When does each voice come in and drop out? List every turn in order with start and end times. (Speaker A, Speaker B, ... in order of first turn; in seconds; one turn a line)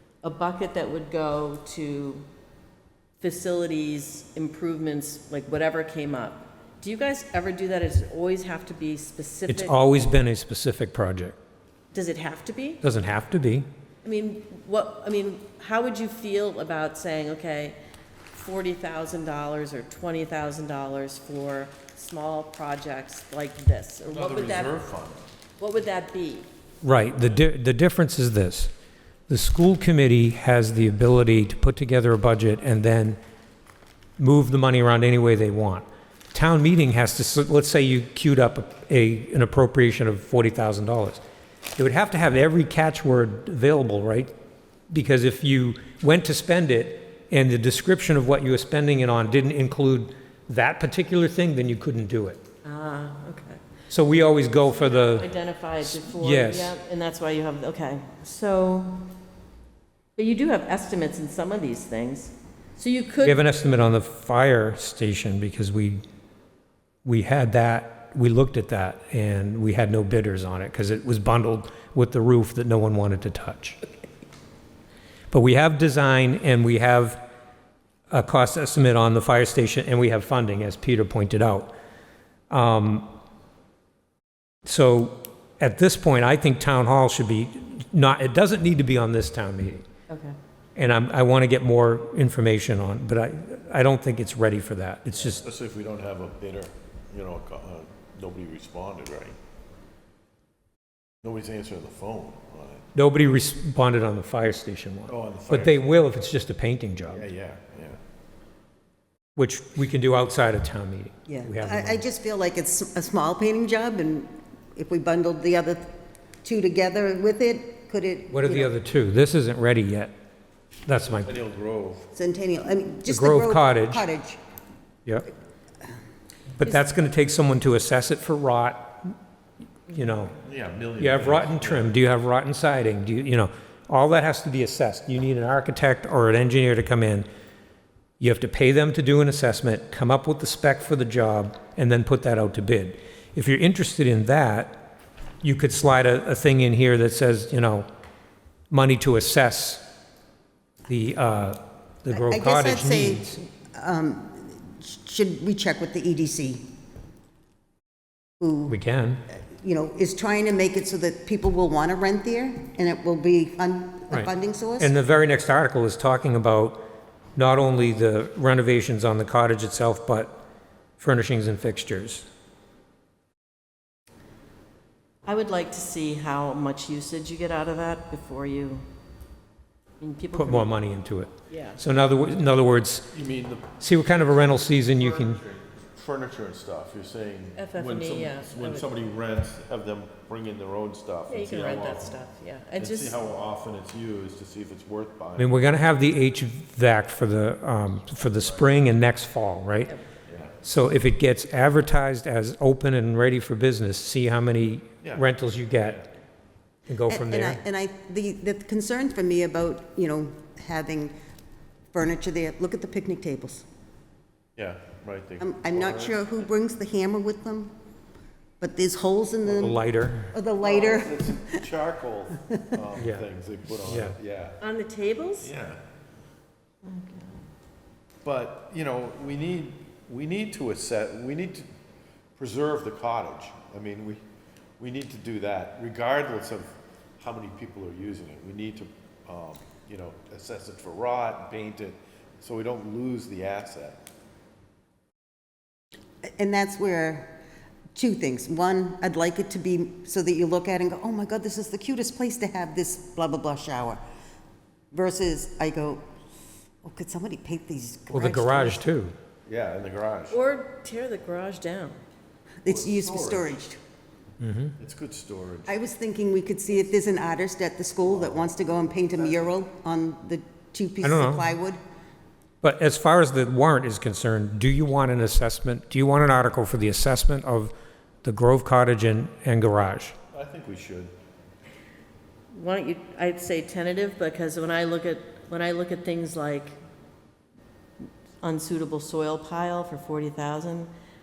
Speaker A: 0.2-2.2
Speaker A: 3.2-9.8
Speaker B: 9.5-11.4
Speaker A: 11.9-12.8
Speaker B: 12.8-13.7
Speaker A: 14.0-17.8
Speaker A: 18.3-24.7
Speaker C: 24.1-25.2
Speaker A: 25.6-26.5
Speaker B: 26.8-28.7
Speaker B: 29.3-33.2
Speaker B: 34.2-41.2
Speaker B: 41.8-44.3
Speaker B: 44.9-52.4
Speaker A: 52.6-53.6
Speaker B: 53.9-55.3
Speaker A: 54.7-59.0
Speaker B: 55.8-56.8
Speaker A: 60.1-63.4
Speaker B: 63.2-66.0
Speaker B: 67.0-73.8
Speaker B: 75.3-77.2
Speaker B: 78.1-81.7
Speaker B: 82.5-83.1
Speaker B: 84.7-89.8
Speaker A: 90.1-90.4
Speaker B: 90.8-95.5
Speaker C: 95.4-99.3
Speaker C: 101.2-102.8
Speaker B: 102.9-107.3
Speaker C: 105.1-105.9
Speaker C: 107.1-108.0
Speaker B: 109.3-112.0
Speaker D: 111.3-115.9
Speaker D: 116.4-118.7
Speaker B: 118.3-120.1
Speaker B: 120.8-121.3
Speaker C: 121.2-122.0
Speaker D: 122.1-124.4
Speaker B: 123.1-124.0
Speaker B: 126.6-129.1
Speaker B: 129.9-130.3
Speaker C: 130.4-131.9
Speaker B: 131.0-137.3
Speaker B: 138.2-144.8
Speaker B: 145.4-147.9
Speaker B: 148.7-149.8
Speaker B: 150.9-153.4
Speaker D: 152.1-156.6
Speaker D: 158.4-158.8
Speaker B: 158.7-159.2
Speaker D: 159.5-164.9
Speaker B: 164.1-166.8
Speaker B: 167.3-170.3
Speaker B: 171.0-172.3
Speaker A: 175.2-178.8
Speaker A: 180.0-180.7
Speaker B: 180.3-183.1
Speaker A: 181.5-181.8
Speaker C: 183.1-192.1
Speaker B: 183.8-185.4
Speaker A: 187.6-189.0
Speaker A: 191.3-193.2
Speaker C: 192.8-195.6
Speaker B: 195.4-199.9
Speaker C: 200.3-200.5
Speaker B: 200.6-206.0
Speaker C: 205.0-206.0
Speaker B: 206.9-207.6
Speaker D: 207.1-211.1
Speaker D: 211.9-213.6
Speaker C: 214.6-216.2
Speaker D: 215.4-217.7
Speaker D: 218.6-219.8
Speaker B: 219.6-220.3
Speaker D: 220.3-221.5
Speaker C: 220.6-224.6
Speaker B: 223.0-223.2
Speaker B: 223.8-224.2
Speaker A: 224.6-225.5
Speaker C: 225.4-225.8
Speaker A: 226.8-227.4
Speaker C: 228.2-231.7
Speaker C: 232.4-234.2
Speaker C: 234.8-244.0
Speaker D: 246.2-247.3
Speaker D: 247.9-254.0
Speaker D: 254.9-256.0
Speaker D: 256.8-258.8
Speaker B: 258.1-259.1
Speaker C: 259.4-260.4
Speaker A: 260.3-262.0
Speaker D: 262.6-263.8
Speaker C: 262.6-263.5
Speaker B: 264.4-264.8
Speaker C: 264.8-265.7
Speaker D: 265.6-271.8
Speaker C: 268.1-268.5
Speaker B: 271.0-271.5
Speaker B: 272.6-277.7
Speaker B: 278.2-280.1
Speaker C: 280.3-281.1
Speaker A: 282.5-286.8
Speaker A: 288.4-290.9